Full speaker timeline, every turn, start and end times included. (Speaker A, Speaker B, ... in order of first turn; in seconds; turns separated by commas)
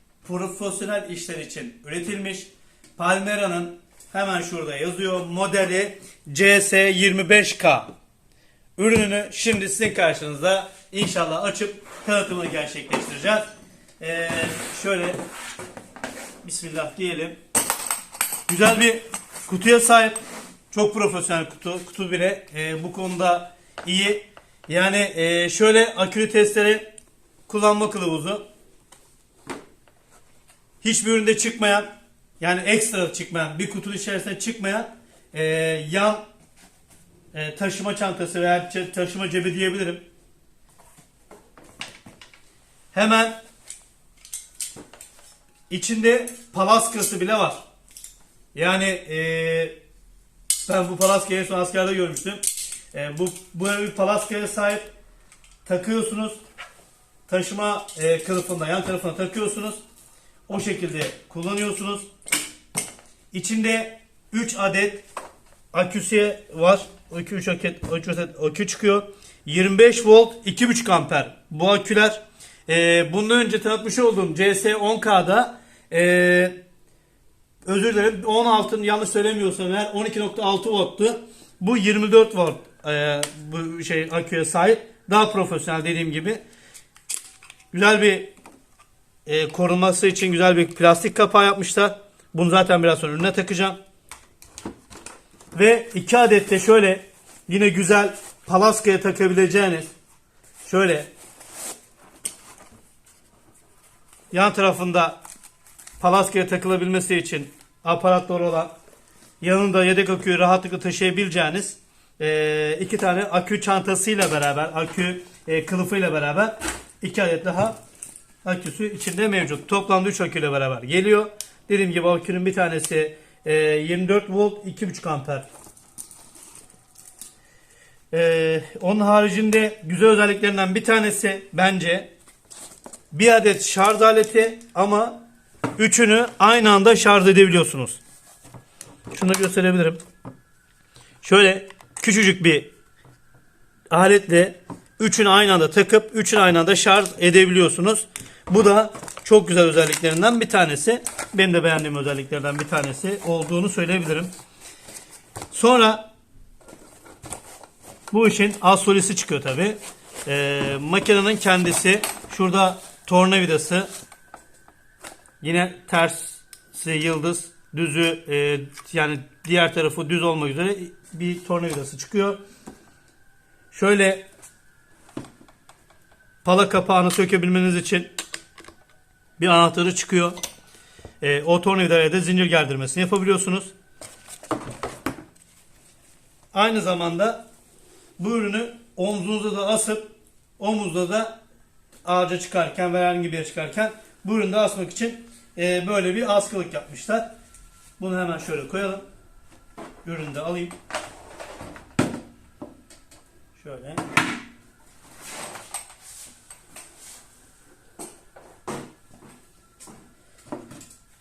Speaker A: 0.2-7.9, Speaker A: 8.8-13.5, Speaker A: 14.0-15.2, Speaker A: 16.4-17.4, Speaker A: 18.5-20.2, Speaker A: 20.7-26.9, Speaker A: 27.5-28.4, Speaker A: 30.8-31.9, Speaker A: 32.4-36.2, Speaker A: 37.3-40.0, Speaker A: 42.9-43.4, Speaker A: 45.7-47.6, Speaker A: 48.5-49.7, Speaker A: 50.6-52.4, Speaker A: 52.9-54.9, Speaker A: 55.6-56.4, Speaker A: 57.3-59.8, Speaker A: 60.5-62.1, Speaker A: 63.3-65.0, Speaker A: 65.7-76.5, Speaker A: 77.7-86.4, Speaker A: 87.7-88.3, Speaker A: 89.2-93.8, Speaker A: 95.5-99.9, Speaker A: 100.6-101.1, Speaker A: 104.3-105.2, Speaker A: 106.0-108.7, Speaker A: 109.4-117.8, Speaker A: 118.4-125.5, Speaker A: 128.1-132.1, Speaker A: 133.1-135.2, Speaker A: 135.8-138.0, Speaker A: 139.1-140.0, Speaker A: 141.2-142.7, Speaker A: 143.9-154.3, Speaker A: 155.5-156.1, Speaker A: 158.1-163.9, Speaker A: 165.4-172.4, Speaker A: 173.7-174.2, Speaker A: 176.4-178.1, Speaker A: 179.4-180.3, Speaker A: 181.2-183.7, Speaker A: 186.5-187.4, Speaker A: 188.2-190.1, Speaker A: 190.6-191.4, Speaker A: 192.0-197.3, Speaker A: 198.0-199.0, Speaker A: 200.0-200.7, Speaker A: 203.5-204.0